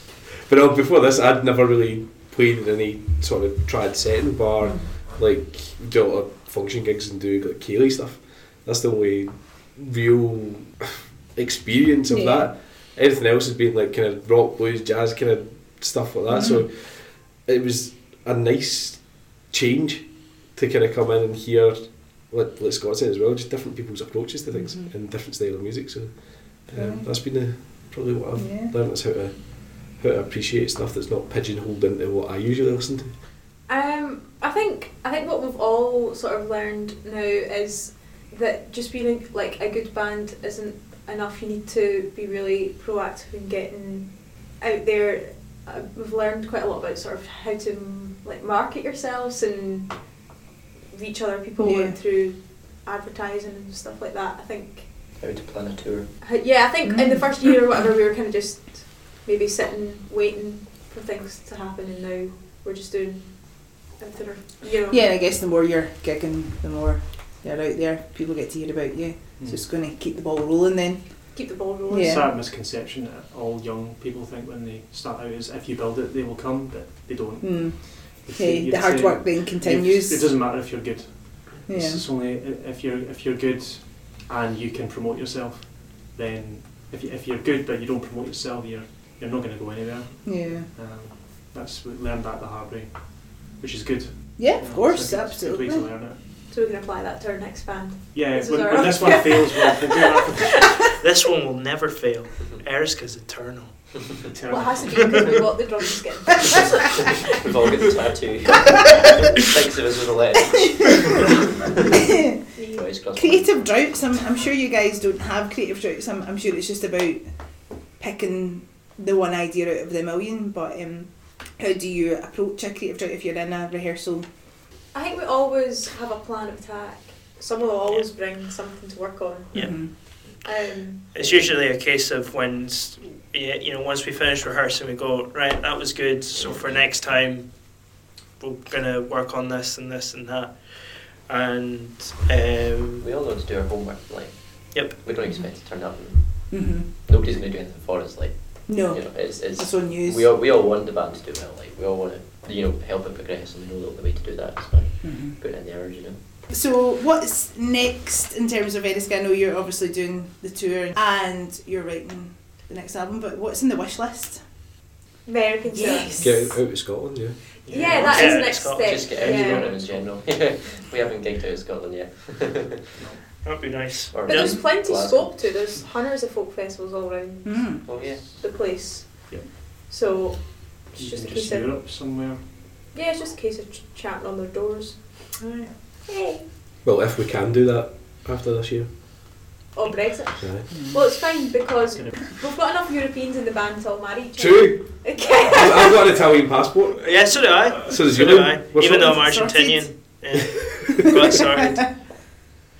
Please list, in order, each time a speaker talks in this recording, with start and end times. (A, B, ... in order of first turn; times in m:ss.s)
0:00.5-0:33.1 A
0:04.6-0:04.9 B
0:12.1-0:12.5 B
0:16.3-0:16.7 B
0:24.5-0:24.9 B
0:26.7-0:27.1 B
0:28.4-0:28.7 B
0:33.7-0:50.3 C
0:50.9-0:54.9 C
0:51.6-0:52.0 B
0:55.2-0:56.1 D
0:56.2-1:05.0 C
0:56.8-0:57.5 B
1:04.9-1:11.4 B
1:09.4-1:09.6 E
1:11.3-1:12.3 C
1:11.9-1:12.3 B
1:12.0-1:36.2 E
1:17.4-1:20.4 B
1:21.6-1:22.0 B
1:30.2-1:30.7 B
1:34.4-1:35.9 B
1:36.5-1:40.8 C
1:38.1-1:40.9 E
1:41.0-1:43.9 F
1:44.3-1:45.3 E
1:44.5-1:47.2 C
1:47.4-1:51.9 D
1:52.1-1:52.4 B
1:52.5-1:52.8 C
1:52.7-1:53.7 D
1:53.1-1:57.3 B
1:58.0-2:04.3 B
2:04.9-2:11.3 C
2:09.5-2:10.4 F
2:09.5-2:09.9 B
2:11.1-2:23.0 F
2:16.3-2:17.0 D
2:23.0-2:36.2 D
2:26.5-2:26.9 B
2:28.7-2:30.2 B
2:35.0-2:35.4 B
2:36.5-2:44.4 B
2:45.2-2:46.2 C
2:45.7-2:46.6 B
2:46.2-2:47.4 A
2:47.6-2:48.4 E
2:47.7-2:49.7 C
2:48.0-2:49.1 F
2:48.8-2:53.0 D
2:49.2-2:50.3 E
2:53.0-2:53.4 E
2:53.4-2:54.6 F
2:54.1-2:55.5 D
2:54.3-3:01.7 C
2:57.4-2:57.8 B
2:57.8-2:58.2 D
3:01.0-3:02.5 E
3:02.9-3:05.3 C
3:05.4-3:05.7 E
3:06.1-3:06.4 C
3:06.8-3:09.4 A
3:09.7-3:16.0 C
3:10.4-3:10.7 A
3:10.7-3:11.0 B
3:14.4-3:17.3 A
3:17.0-3:22.4 F
3:17.9-3:19.1 A
3:18.9-3:20.1 B